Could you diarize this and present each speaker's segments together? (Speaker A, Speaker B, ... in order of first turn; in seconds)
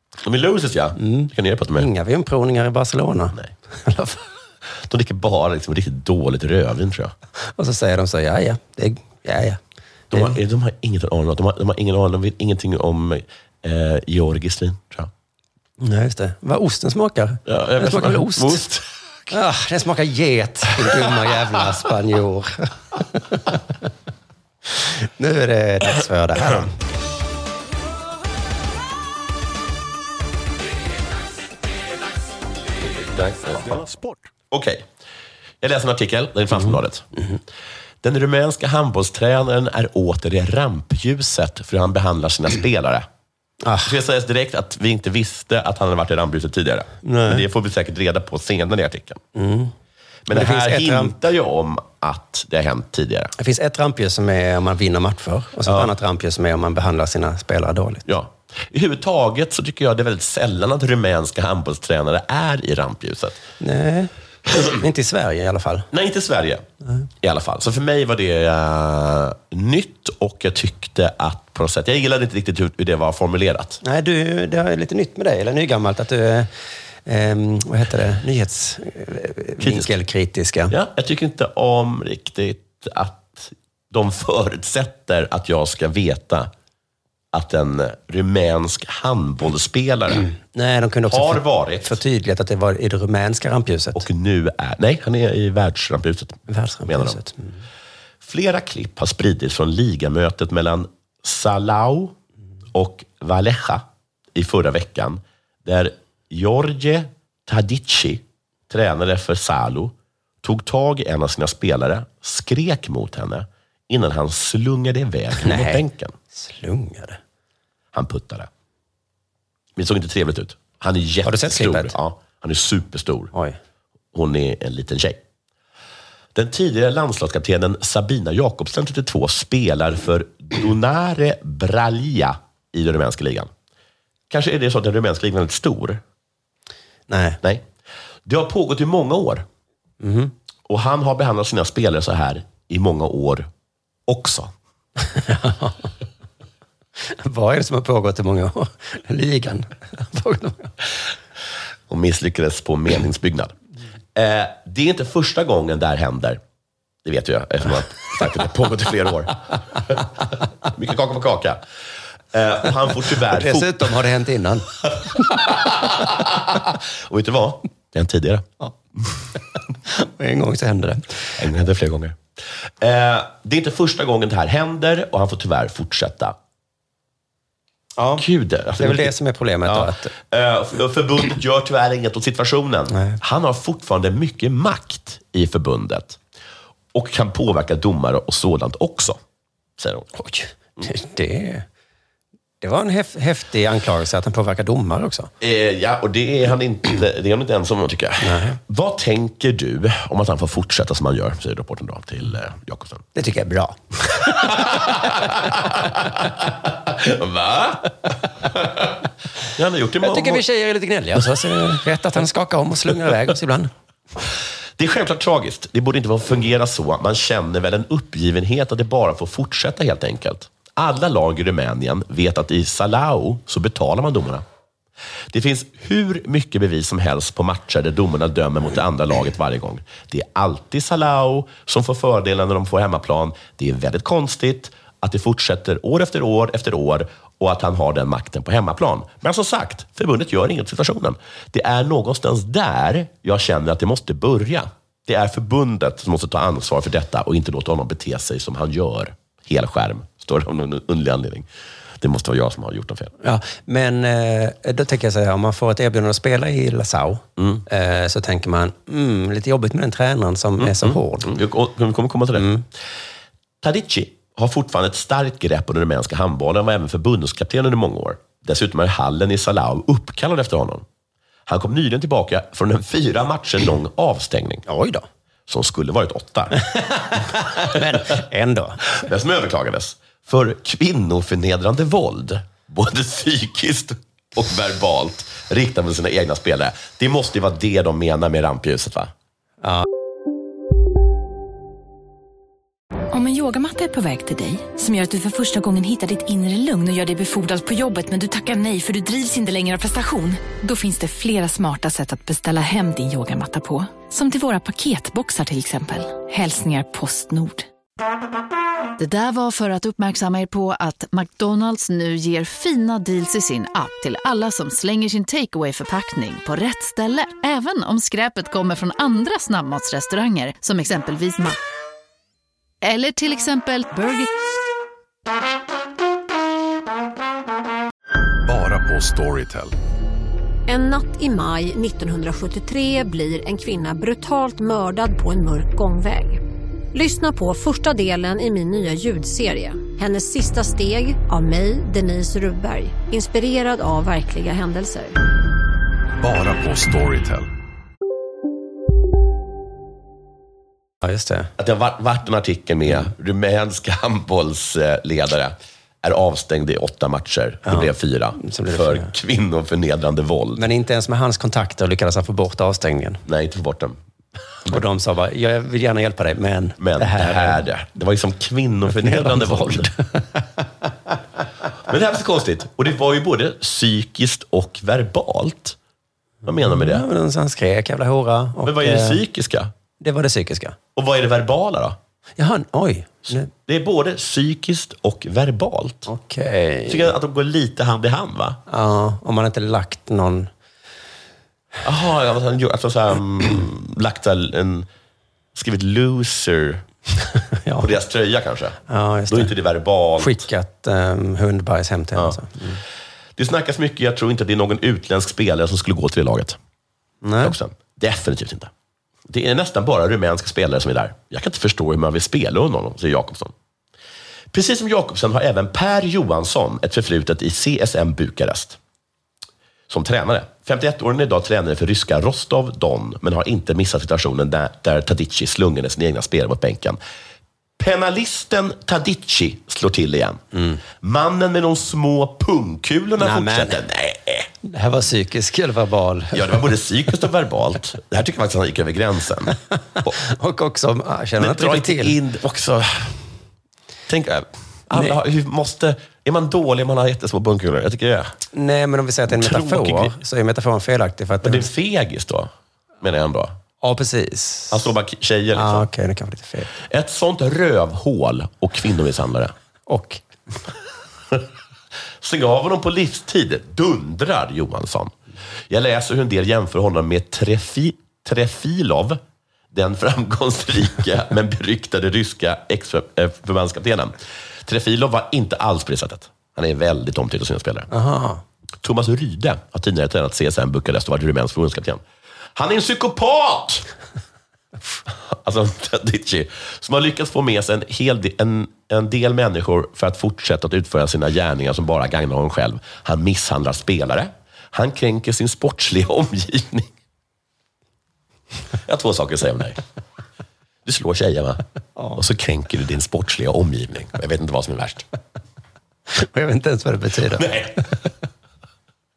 Speaker A: 0.2-1.9, 4.8-7.1, 10.1-15.1, 17.5-18.9, 33.1-33.8, 34.5-34.9, 35.6-37.1, 38.0-43.1, 43.8-49.2, 50.3-53.3, 58.1-63.4, 65.9-66.7, 67.2-73.8, 79.6-79.9, 80.7-86.5, 87.3-90.3, 91.1-92.0, 93.9-97.2, 98.2-102.2, 102.7-116.2, 117.9-118.5, 119.8-123.3, 124.1-125.2, 126.3-133.5, 134.3-136.0, 137.4-137.7, 138.2-139.5, 140.7-143.5, 144.1-144.5, 151.9-153.6, 154.2-156.4, 157.0-160.1, 160.6-161.6, 162.3-163.9, 165.3-168.5, 171.4-172.2, 172.8-176.3, 178.2-186.2, 186.9-189.2, 189.8-190.1, 195.4-203.1, 204.3-209.0, 209.5-210.4, 214.8-224.4, 225.3-251.5, 252.0-253.1, 257.4-257.6, 260.6-262.5, 263.6-270.9, 271.5-274.6, 275.5-276.6, 279.0-289.1, 351.6-360.7, 363.3-364.0, 366.8-369.9, 371.9-375.8, 376.4-377.1, 378.6-379.7, 380.9-382.0, 383.3-386.1, 386.9-388.6, 391.8-394.9, 395.6-396.8, 397.8-400.4, 403.4-406.6, 407.4-408.7, 409.3-413.5, 414.5-418.8, 419.9-427.0, 427.8-430.4, 431.0-434.5, 436.3-440.2, 441.4-443.2, 444.1-448.3, 449.3-450.2, 451.4-453.6, 454.7-455.9, 456.8-459.5, 462.2-465.2, 465.7-469.2, 469.7-477.9, 478.8-482.0, 482.6-483.9, 485.1-496.9, 498.9-499.8, 500.9-501.6, 502.1-505.1, 507.3-507.8
Speaker B: 1.0-4.2, 7.6-9.6, 10.1-10.4, 15.8-18.6, 19.3-23.6, 24.8-26.7, 43.6-44.0, 47.0-47.5, 49.4-49.7, 50.3-51.1, 53.4-58.0, 63.6-65.9, 73.8-76.5, 77.0-80.8, 90.5-94.0, 96.5-97.6, 115.4-117.2, 121.2-122.0, 137.1-137.4, 140.0-140.3, 145.1-145.9, 147.1-150.7, 163.2-164.8, 169.9-171.2, 178.0-178.2, 178.8-180.1, 182.9-183.2, 190.2-191.7, 192.6-195.3, 198.2-198.6, 203.2-204.9, 210.0-213.7, 253.2-261.3, 262.4-262.6, 274.7-275.1, 277.1-278.9, 351.0-351.5, 357.7-359.1, 360.6-363.2, 364.7-367.6, 368.9-370.6, 376.6-379.2, 380.0-380.8, 382.4-383.5, 386.1-387.1, 388.7-390.5, 397.6-397.9, 398.9-399.5, 400.2-402.8, 407.2-407.6, 430.5-430.8, 433.2-433.8, 434.6-436.7, 440.2-442.2, 448.5-451.7, 453.8-454.8, 455.5-456.7, 459.9-460.2, 477.9-478.4, 506.1-507.6
Speaker C: 293.1-307.7
Speaker D: 309.0-321.6, 322.8-324.3
Speaker E: 328.5-329.7, 346.2-347.5
Speaker F: 330.7-336.4, 336.9-345.1